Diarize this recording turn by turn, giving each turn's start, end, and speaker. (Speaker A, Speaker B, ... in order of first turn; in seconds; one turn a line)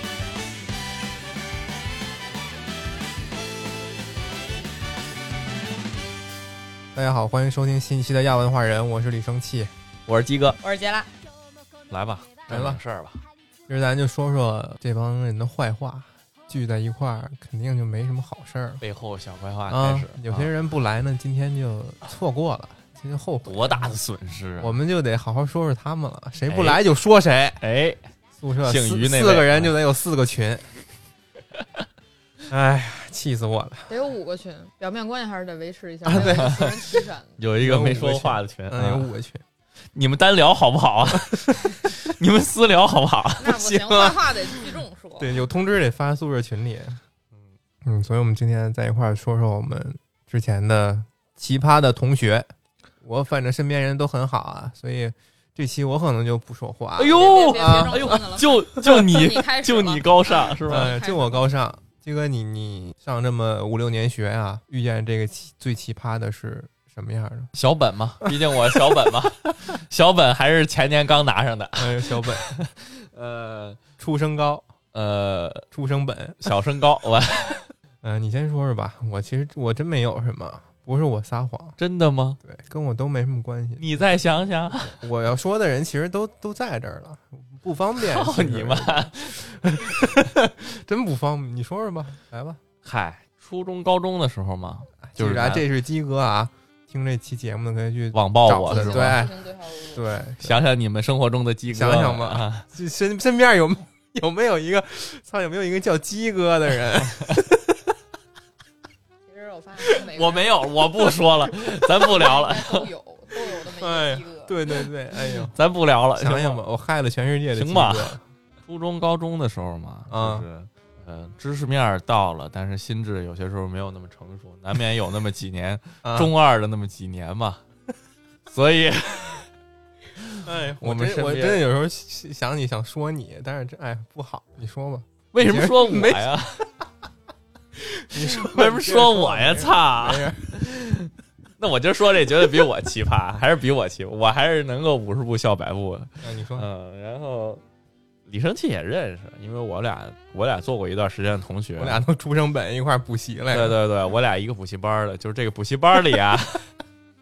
Speaker A: 7.0-9.7
Speaker B: 10.1-10.6
Speaker C: 10.6-11.1
Speaker B: 11.9-13.2
Speaker A: 12.5-12.8
Speaker A: 13.7-18.8
Speaker B: 18.8-20.5
Speaker A: 19.7-23.9
Speaker B: 23.4-24.8
Speaker A: 24.6-27.6
Speaker B: 26.5-26.8
Speaker B: 27.6-28.0
Speaker A: 28.4-30.7
Speaker B: 28.6-29.7
Speaker A: 32.5-33.9
Speaker C: 33.9-37.3
Speaker A: 36.0-37.0
Speaker B: 36.1-36.6
Speaker B: 37.4-39.1
Speaker A: 37.6-39.4
Speaker B: 40.0-43.5
Speaker A: 41.1-41.6
Speaker C: 43.4-45.3
Speaker A: 43.5-47.0
Speaker A: 47.8-52.5
Speaker A: 53.0-58.2
Speaker B: 57.0-60.9
Speaker C: 57.1-61.4
Speaker A: 60.6-67.5
Speaker B: 67.5-73.8
Speaker A: 71.8-72.5
Speaker A: 74.0-74.7
Speaker B: 74.9-75.7
Speaker A: 75.7-76.5
Speaker B: 76.4-77.6
Speaker A: 78.0-81.8
Speaker B: 81.8-82.4
Speaker A: 82.4-84.1
Speaker B: 83.8-85.0
Speaker A: 84.9-92.6
Speaker B: 88.0-90.1
Speaker B: 92.8-95.7
Speaker A: 95.1-100.6
Speaker B: 98.1-99.2
Speaker C: 98.7-100.1
Speaker B: 100.4-102.7
Speaker A: 101.7-107.8
Speaker C: 109.3-110.5
Speaker B: 109.9-112.9
Speaker C: 111.7-114.5
Speaker A: 113.7-115.5
Speaker B: 115.5-116.6
Speaker A: 116.2-118.2
Speaker B: 117.5-127.6
Speaker A: 120.1-120.5
Speaker A: 126.0-126.3
Speaker B: 128.5-129.5
Speaker B: 130.2-131.6
Speaker A: 130.4-136.7
Speaker B: 135.3-136.7
Speaker A: 137.8-140.6
Speaker B: 138.2-147.6
Speaker A: 146.2-146.7
Speaker B: 148.3-152.0
Speaker A: 151.8-153.8
Speaker B: 153.5-156.7